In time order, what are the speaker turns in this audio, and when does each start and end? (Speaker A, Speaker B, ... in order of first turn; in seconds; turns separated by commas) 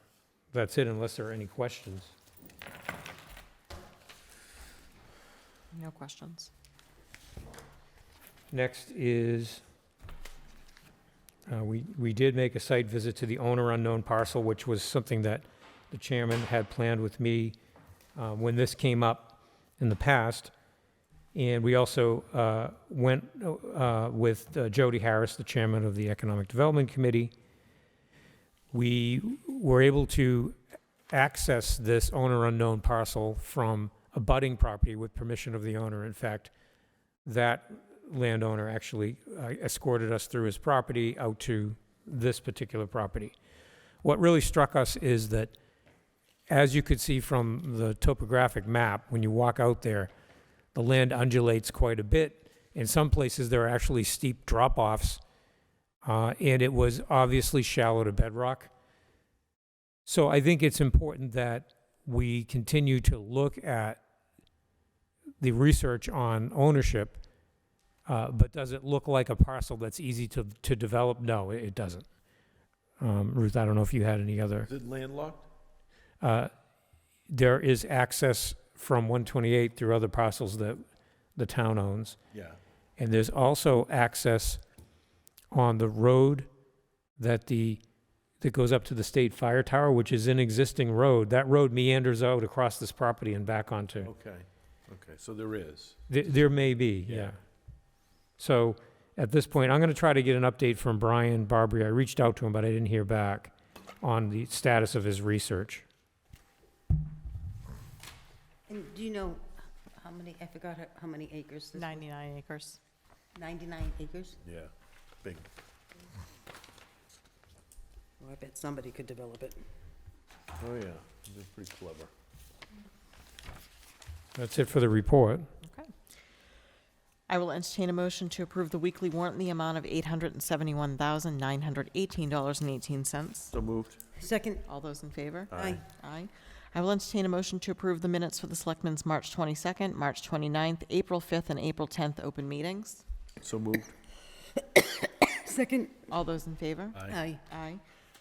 Speaker A: 0.5-2.1, Speaker B: 5.7-6.5, Speaker A: 8.5-9.6, Speaker A: 11.4-17.6, Speaker A: 18.1-20.5, Speaker A: 21.3-27.3, Speaker A: 28.7-30.6, Speaker A: 31.1-36.5, Speaker A: 37.2-43.3, Speaker A: 44.0-45.5, Speaker A: 46.5-50.1, Speaker A: 50.7-55.2, Speaker A: 56.0-58.7, Speaker A: 60.0-64.0, Speaker A: 65.4-67.2, Speaker A: 68.0-72.0, Speaker A: 73.0-74.7, Speaker C: 74.7-75.5, Speaker A: 76.2-76.5, Speaker A: 77.3-80.8, Speaker A: 81.3-82.2, Speaker C: 82.3-82.6, Speaker A: 83.0-84.6, Speaker A: 85.5-86.5, Speaker A: 87.2-87.8, Speaker A: 88.4-94.1, Speaker C: 94.0-96.0, Speaker A: 96.1-97.4, Speaker C: 97.0-97.3, Speaker A: 98.4-105.8, Speaker D: 108.7-112.0, Speaker B: 111.7-112.8, Speaker D: 113.3-114.4, Speaker C: 114.4-114.7, Speaker C: 115.2-115.5, Speaker D: 118.2-119.6, Speaker C: 120.6-122.1, Speaker A: 124.3-125.5, Speaker B: 127.3-133.5, Speaker C: 133.5-134.0, Speaker D: 134.2-134.6, Speaker B: 134.7-143.0, Speaker C: 135.5-135.8, Speaker D: 135.5-135.8, Speaker C: 143.4-143.9, Speaker D: 144.6-146.0, Speaker B: 146.1-147.8, Speaker C: 146.9-147.2, Speaker D: 147.1-147.4